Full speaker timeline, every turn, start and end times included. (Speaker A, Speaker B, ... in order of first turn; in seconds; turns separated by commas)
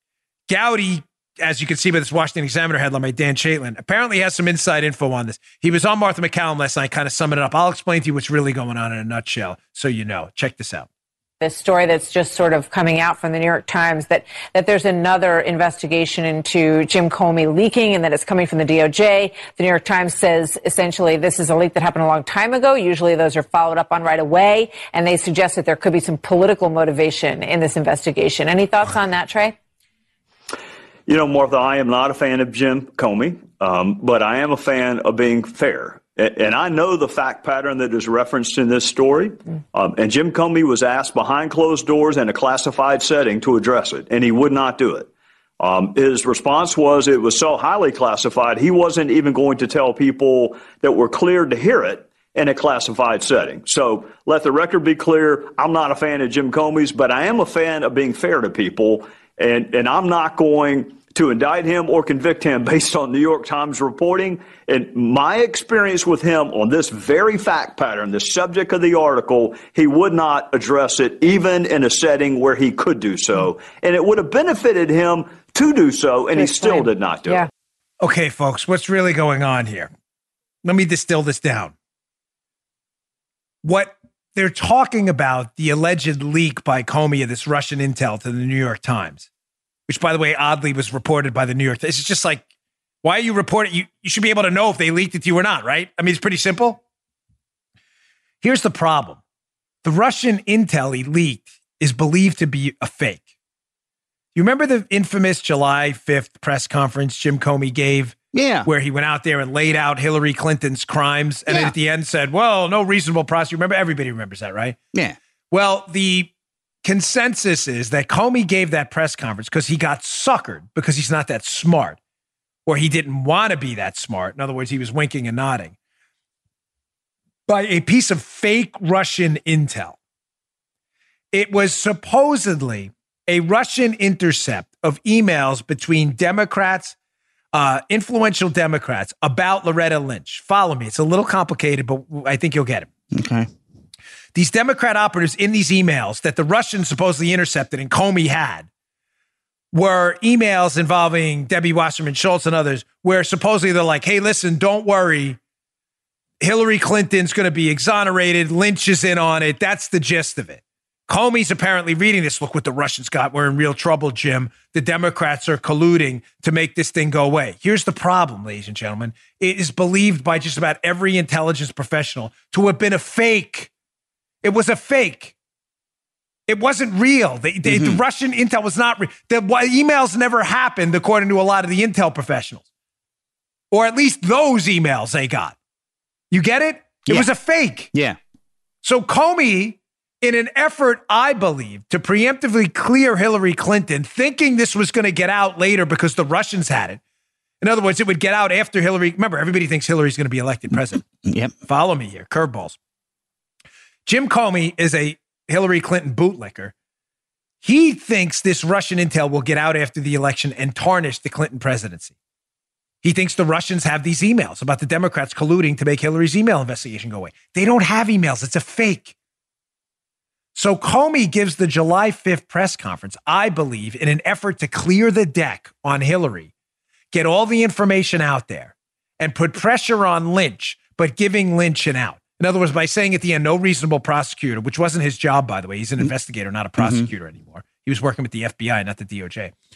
Speaker A: 0.5-10.9, Speaker B: 11.4-29.6, Speaker C: 31.1-77.4, Speaker B: 76.4-77.5, Speaker A: 78.0-79.9, Speaker A: 80.6-81.7, Speaker A: 83.6-89.3, Speaker A: 89.9-92.5, Speaker A: 93.0-96.8, Speaker A: 98.4-99.2, Speaker A: 99.8-103.2, Speaker A: 104.3-114.8, Speaker D: 108.3-108.7, Speaker D: 111.5-111.7, Speaker A: 115.5-116.3, Speaker A: 116.8-122.0, Speaker A: 122.7-125.8, Speaker A: 127.5-130.0, Speaker A: 131.3-136.9, Speaker A: 137.5-142.9, Speaker D: 143.1-143.5, Speaker A: 144.3-148.7, Speaker A: 149.7-155.4, Speaker A: 156.4-173.7, Speaker A: 174.4-175.3, Speaker A: 176.5-182.6, Speaker D: 177.6-178.0, Speaker A: 183.7-185.6, Speaker A: 186.3-187.9, Speaker D: 187.9-188.2, Speaker A: 188.8-197.0, Speaker A: 197.6-202.8, Speaker D: 201.0-201.5, Speaker A: 204.1-206.7, Speaker A: 207.6-212.1, Speaker A: 213.0-219.1, Speaker A: 220.5-226.5, Speaker A: 227.1-239.5, Speaker D: 236.8-237.1